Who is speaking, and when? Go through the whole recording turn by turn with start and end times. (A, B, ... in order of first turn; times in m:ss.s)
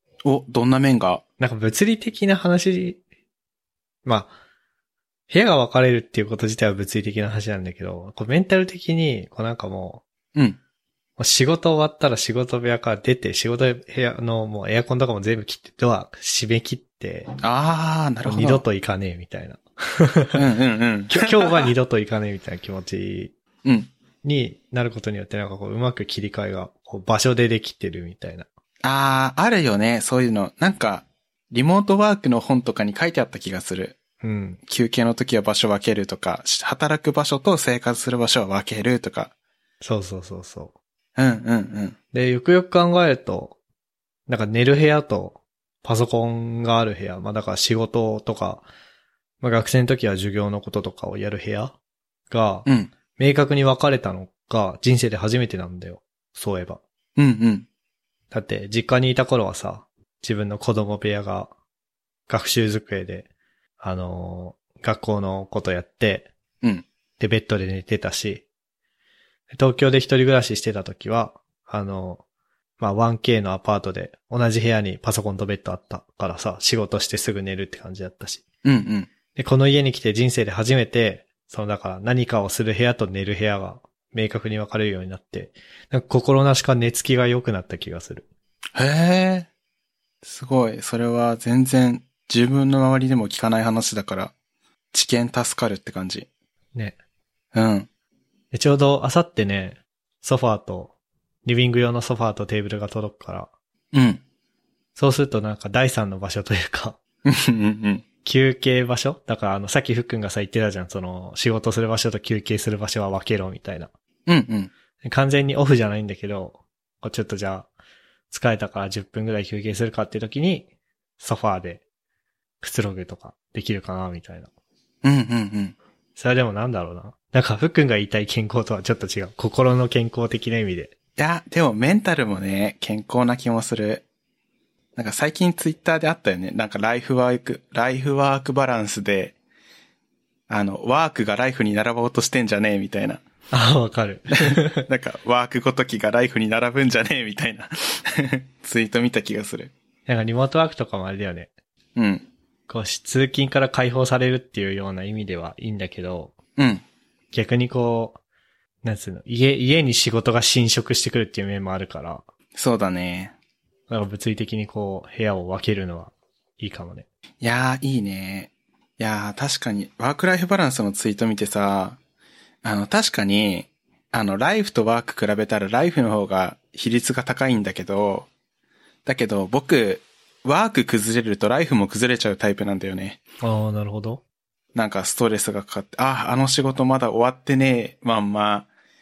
0:00.2-0:01.2 A
0:01.4-0:03.0 B
0:04.0-0:04.3 B
0:05.3-0:10.0 B
0:11.2-0:17.3 B
0:17.4-0:18.6 A
0:18.2-0:20.4 B
0:20.3-0:21.7 A
0:21.1-0:23.3 B
0:23.6-0:23.9 A
0:24.2-0:28.5 B
0:28.8-0:34.0 A
0:34.2-0:34.6 B
0:34.7-0:39.3 A
0:39.8-0:40.7 B
0:41.2-0:42.0 A
0:42.1-0:43.6 B
0:44.3-0:48.6 B
0:49.4-0:51.7 B
0:52.3-0:56.8 B
0:52.6-0:52.9 A
0:57.2-0:57.7 A
0:58.3-1:01.5 B
1:02.3-1:03.3 B
1:03.8-1:06.3 B
1:07.2-1:08.4 B
1:09.5-1:12.2 B
1:12.8-1:18.4 B
1:18.6-1:19.1 A
1:19.3-1:28.3 B
1:28.8-1:29.5 A
1:30.2-1:34.3 A
1:34.9-1:36.3 A
1:37.5-1:37.9 A
1:38.5-1:40.9 B
1:41.4-1:43.5 B
1:43.9-1:44.2 A
1:45.0-1:47.0 B
1:47.2-1:48.0 A
1:48.2-1:53.9 B
1:54.3-1:54.7 A
1:55.0-1:57.7 B
1:58.3-2:00.7 B
2:01.2-2:01.8 B
2:02.6-2:04.5 B
2:05.0-2:05.7 A
2:06.2-2:10.9 B
2:11.2-2:14.0 A
2:15.0-2:19.4 A
2:20.5-2:23.2 A
2:23.5-2:24.8 B
2:24.4-2:29.7 A
2:30.1-2:31.5 B
2:32.0-2:32.3 A
2:32.7-2:36.4 B
2:36.6-2:36.8 A
2:37.3-2:38.2 B
2:38.8-2:42.2 B
2:42.5-2:43.3 A
2:43.9-2:47.0 B
2:47.4-2:52.0 A
2:52.6-2:58.3 A
2:59.0-3:03.2 A
3:03.4-3:04.2 B
3:04.7-3:08.7 A